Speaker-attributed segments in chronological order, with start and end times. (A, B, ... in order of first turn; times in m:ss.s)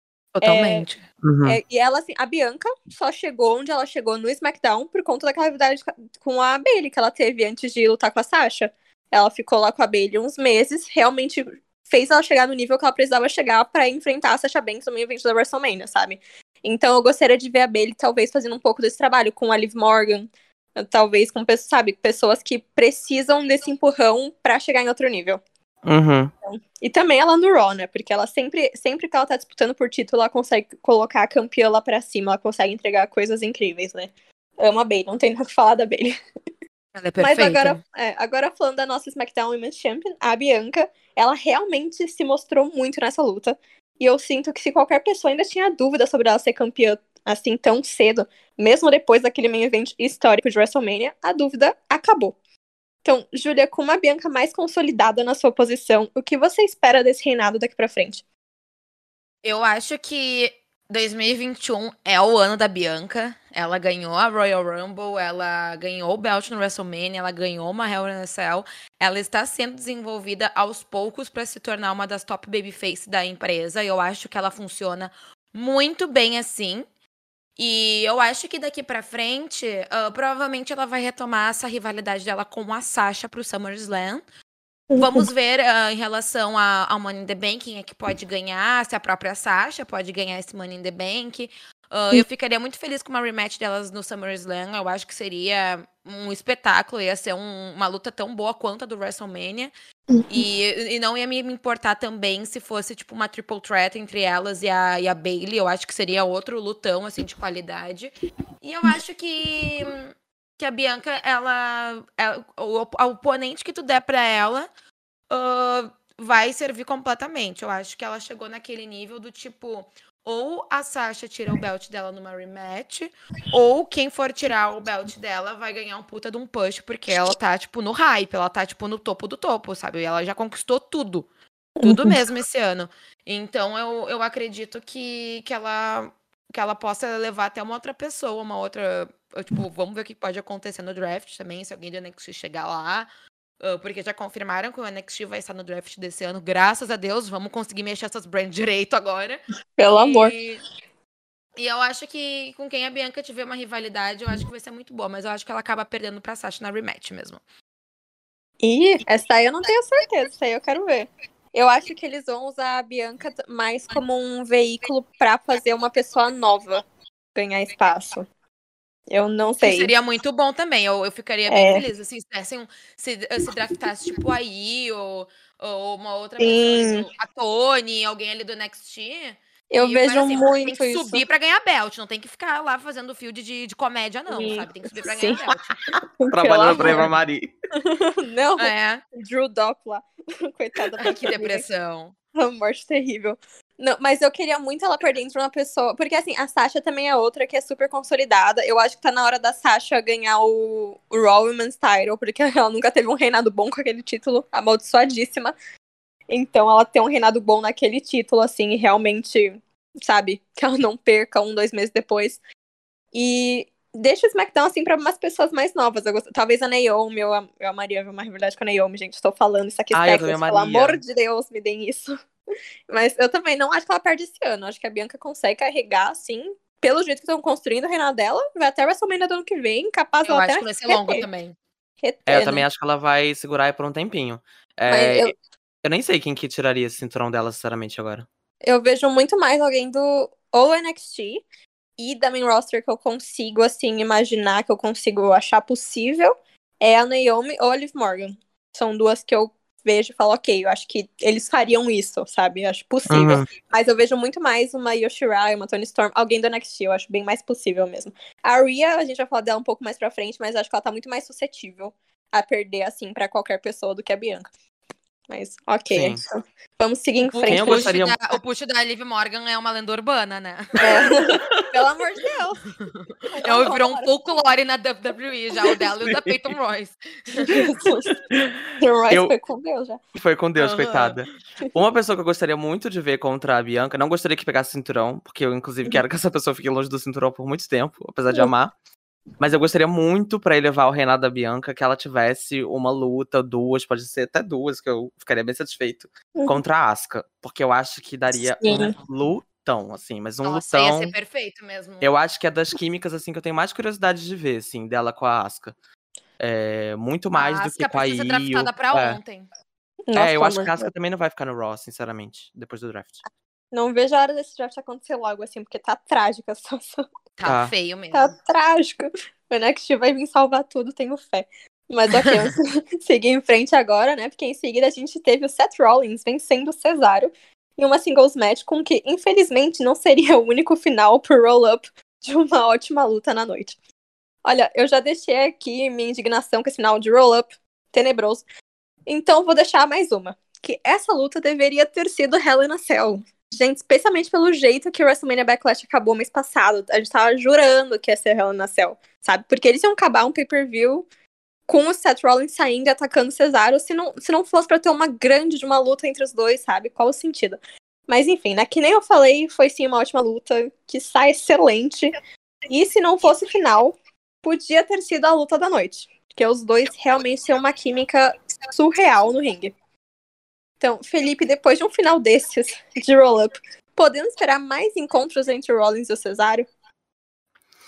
0:00.4-0:01.0 A
0:00.4-0:00.9 B
0:01.2-0:01.6 C
0:01.4-0:25.4 B
0:25.8-0:26.3 C
0:26.5-0:36.2 B
0:37.0-0:37.8 A
0:37.2-0:52.4 B
0:53.0-0:58.2 B
0:59.4-1:16.8 A
1:17.6-1:24.2 A
1:24.9-1:25.3 B
1:25.0-1:39.7 A
1:40.3-1:54.7 A
1:55.3-2:11.3 A
2:11.8-2:12.2 B
2:11.8-2:23.1 A
2:23.6-2:29.4 A
2:29.8-2:30.4 B
2:30.0-2:30.6 A
2:31.6-2:37.4 A
2:38.6-2:48.3 B
2:49.1-2:49.9 B
2:49.6-3:05.8 A
2:51.5-2:51.8 B
2:56.4-2:57.1 B
2:59.7-3:01.2 B
3:04.3-3:05.4 B
3:06.2-3:07.1 B
3:06.3-3:07.5 C
3:06.8-3:07.0 A
3:07.8-3:11.6 B
3:08.6-3:09.0 A
3:11.0-3:12.1 A
3:12.4-3:25.5 B
3:26.3-3:32.4 B
3:33.1-3:42.2 B
3:39.9-3:41.0 C
3:42.9-3:51.3 B
3:50.3-3:51.6 A
3:52.0-3:52.6 B
3:52.3-3:55.3 C
3:54.9-3:55.3 B
3:55.8-3:58.3 C
3:58.6-4:01.4 B
4:02.0-4:24.4 B
4:13.1-4:13.5 C
4:25.3-4:27.9 B
4:25.9-4:26.2 C
4:27.3-4:31.2 A
4:27.5-4:28.2 C
4:30.8-4:32.7 B
4:32.8-4:37.8 A
4:33.3-4:34.1 B
4:36.1-4:36.4 C
4:37.4-4:38.2 B
4:38.8-4:40.0 B
4:40.2-4:48.7 C
4:40.6-4:41.2 A
4:49.4-5:01.1 C
4:58.5-4:58.9 B
5:00.4-5:02.1 A
5:02.0-5:05.7 C
5:06.4-5:09.2 C
5:07.3-5:09.5 A
5:10.1-5:10.9 B
5:10.1-5:13.2 C
5:13.7-5:17.0 B
5:17.4-5:18.3 A
5:17.4-5:17.7 C
5:18.1-5:33.8 B
5:34.4-5:38.4 B
5:39.1-5:51.1 B
5:51.7-6:02.2 B
6:02.7-6:09.8 B
6:10.8-6:16.7 B